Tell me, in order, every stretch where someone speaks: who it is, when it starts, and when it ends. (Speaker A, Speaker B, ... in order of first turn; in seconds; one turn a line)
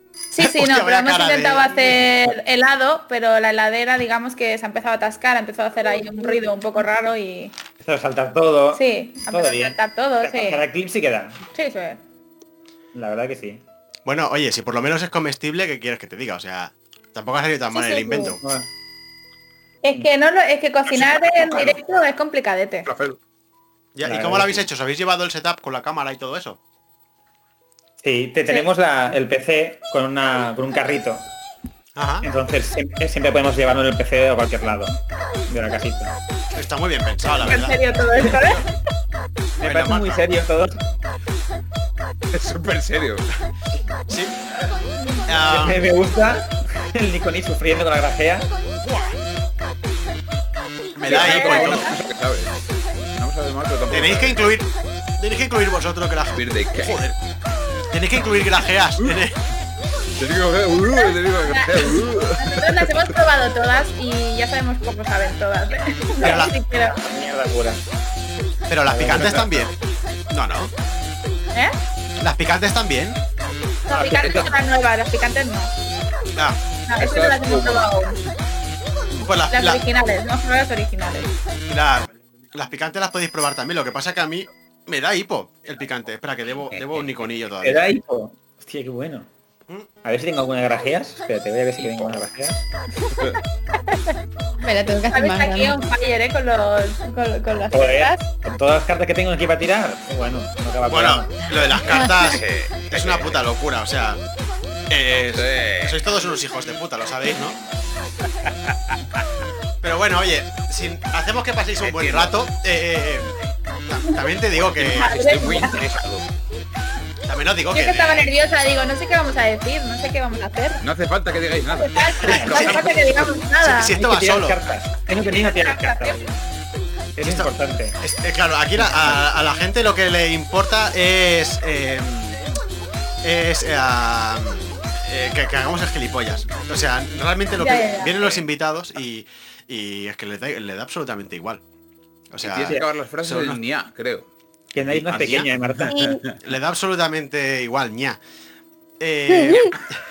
Speaker A: 0.3-7.5
Speaker B: 0.4-2.0
Speaker C: 7.8-11.4
Speaker A: 8.7-10.6
Speaker A: 11.5-12.0
Speaker C: 12.9-13.6
Speaker B: 14.1-18.4
Speaker A: 17.7-18.4
Speaker C: 18.4-18.7
Speaker A: 19.8-22.9
Speaker D: 20.9-21.8
Speaker D: 22.9-23.2
Speaker B: 23.9-26.6
Speaker C: 24.1-24.6
Speaker C: 28.0-31.3
Speaker B: 31.9-32.3
Speaker C: 32.2-35.0
Speaker C: 35.5-36.1
Speaker B: 36.5-38.6
Speaker A: 37.5-38.7
Speaker C: 39.6-40.8
Speaker B: 39.6-40.2
Speaker D: 42.3-43.3
Speaker B: 44.1-44.4
Speaker B: 45.3-45.9
Speaker C: 45.4-48.5
Speaker B: 51.0-51.9
Speaker A: 51.0-52.0
Speaker D: 51.1-52.5
Speaker D: 53.2-54.5
Speaker B: 53.9-57.2
Speaker D: 56.4-57.0
Speaker B: 57.9-59.4
Speaker D: 60.2-63.1
Speaker A: 60.9-67.0
Speaker C: 66.2-67.8
Speaker B: 66.2-66.6
Speaker B: 68.7-69.7
Speaker C: 68.9-69.4
Speaker D: 69.1-69.5
Speaker B: 70.3-70.7
Speaker B: 72.2-73.2
Speaker A: 73.9-75.7
Speaker D: 74.0-74.5
Speaker C: 74.1-74.5
Speaker A: 76.9-78.2
Speaker D: 77.0-78.0
Speaker B: 79.2-79.8
Speaker A: 79.5-81.3
Speaker B: 81.7-87.8
Speaker D: 86.7-87.1
Speaker C: 87.6-89.3
Speaker C: 90.0-92.6
Speaker D: 91.8-92.2
Speaker A: 93.8-94.2
Speaker E: 94.6-95.9
Speaker A: 95.1-98.3
Speaker C: 97.7-101.3
Speaker B: 100.9-104.2
Speaker E: 101.9-102.3
Speaker D: 102.2-103.4
Speaker B: 104.9-107.6
Speaker D: 105.3-106.0
Speaker B: 109.8-113.3
Speaker D: 111.8-112.3
Speaker B: 113.9-115.2
Speaker D: 114.5-116.3
Speaker A: 115.0-115.8
Speaker B: 117.3-118.3
Speaker A: 117.7-120.8
Speaker D: 120.8-123.4
Speaker A: 121.7-123.9
Speaker C: 122.3-122.6
Speaker B: 122.4-122.8
Speaker B: 123.6-124.8
Speaker C: 123.9-126.4
Speaker A: 125.1-126.3
Speaker C: 127.2-128.0
Speaker B: 127.2-132.4
Speaker C: 128.8-129.2
Speaker B: 133.2-141.6
Speaker A: 137.6-138.3
Speaker B: 142.3-143.6
Speaker D: 142.4-144.3
Speaker C: 144.7-146.0
Speaker B: 145.0-145.5
Speaker D: 145.0-145.5
Speaker E: 145.9-146.2
Speaker D: 146.0-146.3
Speaker B: 146.4-148.2
Speaker B: 149.0-149.8
Speaker E: 149.3-149.8